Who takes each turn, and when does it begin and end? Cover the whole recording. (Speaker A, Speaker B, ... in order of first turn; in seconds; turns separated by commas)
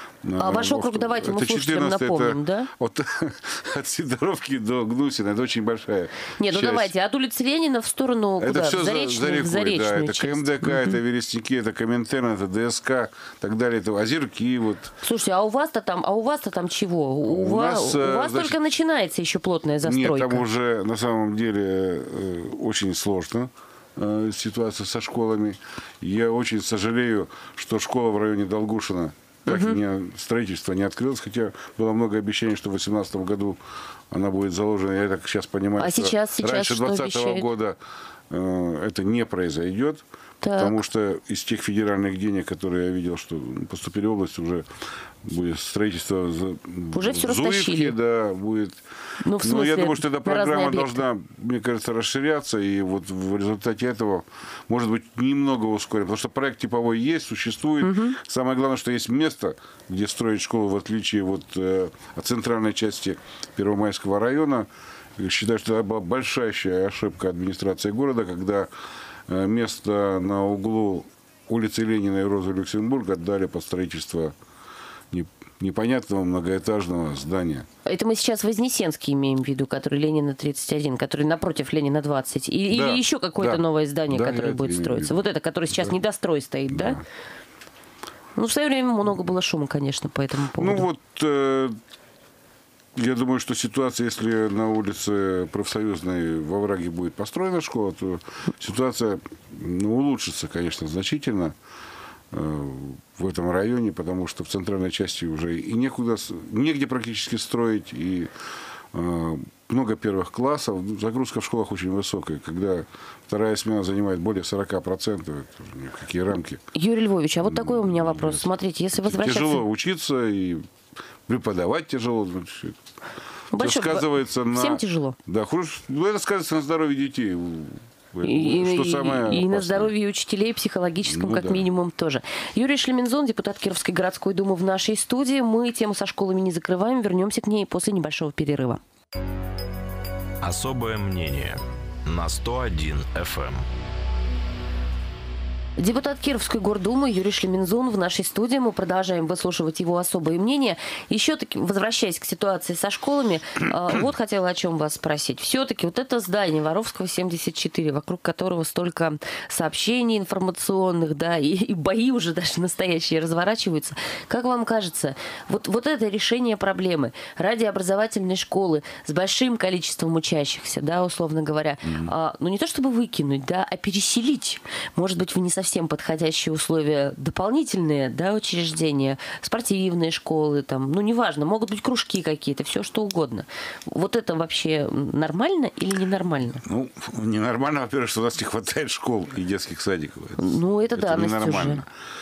Speaker A: 0.2-6.9, Speaker B: 0.4-2.7, Speaker B: 6.4-11.0, Speaker A: 8.4-14.9, Speaker B: 15.0-20.4, Speaker A: 17.2-18.6, Speaker A: 19.8-33.6, Speaker B: 29.5-29.8, Speaker A: 34.1-37.8, Speaker B: 35.8-37.5, Speaker A: 38.3-40.0, Speaker B: 40.4-40.8, Speaker A: 40.6-44.7, Speaker A: 45.2-48.8, Speaker B: 46.9-48.0, Speaker B: 49.2-51.0, Speaker A: 49.4-68.7, Speaker B: 57.8-58.2, Speaker A: 69.3-74.3, Speaker A: 75.1-77.7, Speaker B: 77.8-87.0, Speaker A: 82.7-85.2, Speaker A: 86.7-87.0, Speaker B: 88.4-90.9, Speaker A: 90.6-91.8, Speaker A: 93.0-101.6, Speaker A: 102.3-108.3, Speaker A: 108.9-116.6, Speaker B: 116.7-119.6, Speaker A: 117.4-120.7, Speaker A: 121.3-122.8, Speaker B: 123.5-125.2, Speaker A: 123.6-129.9, Speaker B: 128.2-138.8, Speaker A: 131.0-131.7, Speaker C: 140.4-143.7, Speaker B: 145.8-186.6, Speaker A: 171.8-172.1, Speaker A: 186.6-191.9, Speaker B: 190.4-191.8